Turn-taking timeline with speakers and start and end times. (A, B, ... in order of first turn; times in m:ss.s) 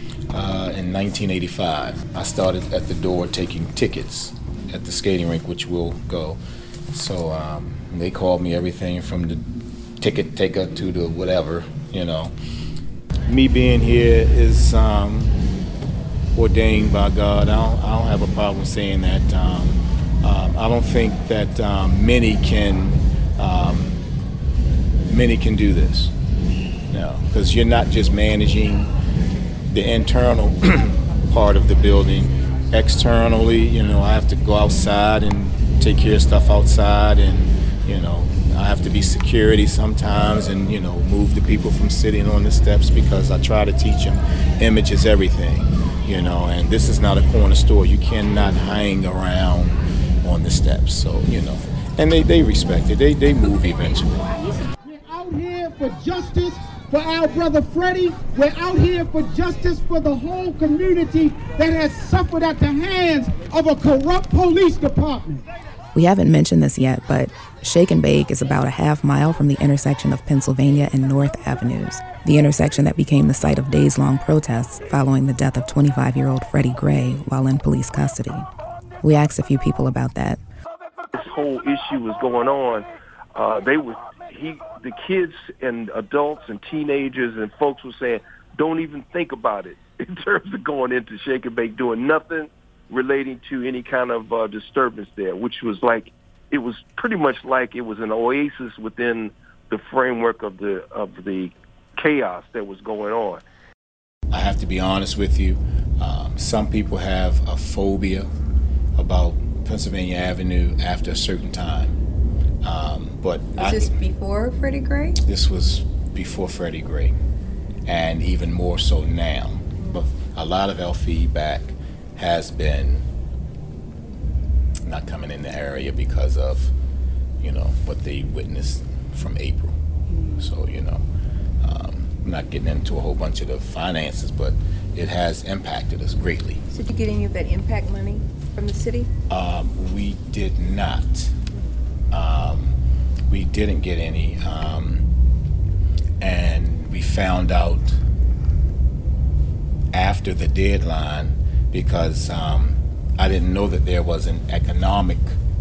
0:00.3-0:06.4 A
0:06.9-0:09.5 A
0:10.0-0:12.3 A
0:13.3-0:15.4 A
0:16.4-0:24.0 A
0:25.1-0:26.2 A
0:26.9-0:28.9 A
0:29.7-0:54.3 A
0:54.2-0:54.7 B
0:54.8-1:05.5 C
1:05.9-1:18.5 D
1:19.0-1:20.4 D
1:21.1-1:43.4 E
1:44.3-1:48.3 A
1:49.0-1:52.0 A
1:52.6-1:53.9 A
1:53.6-1:55.2 B
1:55.2-1:57.2 A
1:57.9-2:03.1 A
1:59.8-2:00.1 B
2:04.8-2:06.7 A
2:07.4-2:09.8 A
2:10.1-2:10.5 B
2:10.4-2:11.0 A
2:11.6-2:16.6 A
2:16.7-2:19.1 B
2:19.3-2:21.3 A
2:22.1-2:22.8 A
2:23.3-2:25.1 A
2:26.2-2:28.0 A
2:29.9-2:35.4 A